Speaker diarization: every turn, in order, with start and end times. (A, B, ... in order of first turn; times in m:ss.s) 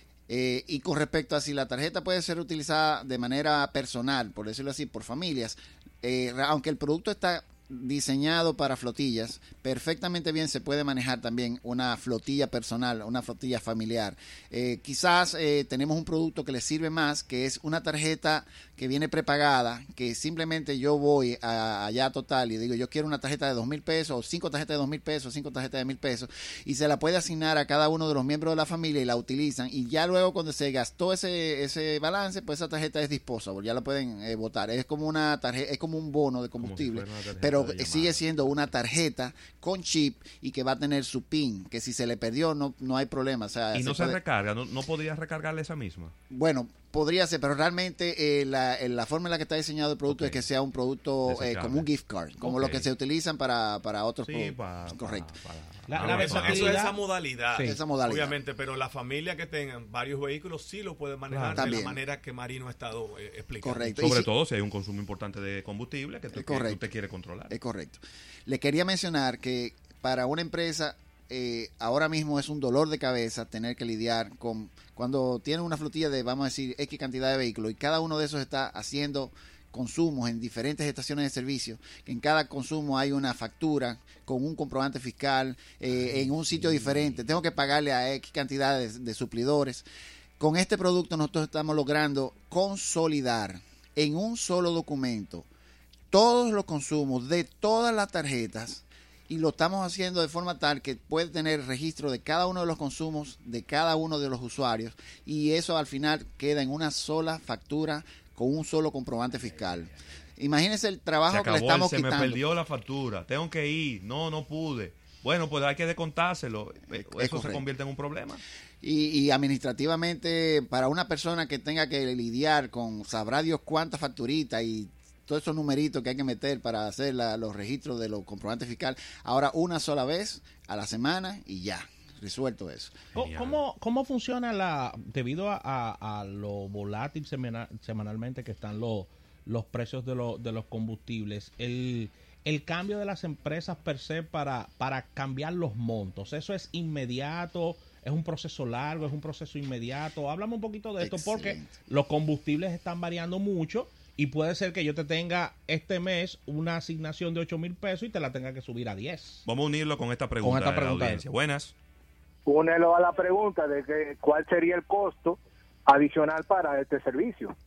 0:00.3-0:44.2 A
0:36.6-0:38.5 B
0:43.7-0:46.1 B
0:46.3-0:55.4 A
0:50.1-0:50.4 B
0:51.3-0:51.8 B
0:52.4-0:52.9 B
0:54.3-0:56.8 B
0:55.9-0:57.0 C
0:56.0-1:04.0 D
0:57.5-0:57.8 C
0:57.6-0:58.3 A
1:01.3-1:01.8 B
1:01.5-1:02.0 A
1:03.6-1:04.3 A
1:04.0-1:07.5 B
1:06.3-1:06.8 A
1:07.5-1:29.8 A
1:30.4-1:35.5 A
1:36.1-1:52.4 A
1:51.3-1:58.4 B
1:56.9-1:57.6 A
1:58.8-2:13.1 A
2:13.1-2:39.4 C
2:13.1-2:13.6 B
2:31.0-2:31.7 A
2:39.4-2:41.7 B
2:40.4-2:41.2 C
2:42.4-2:47.5 E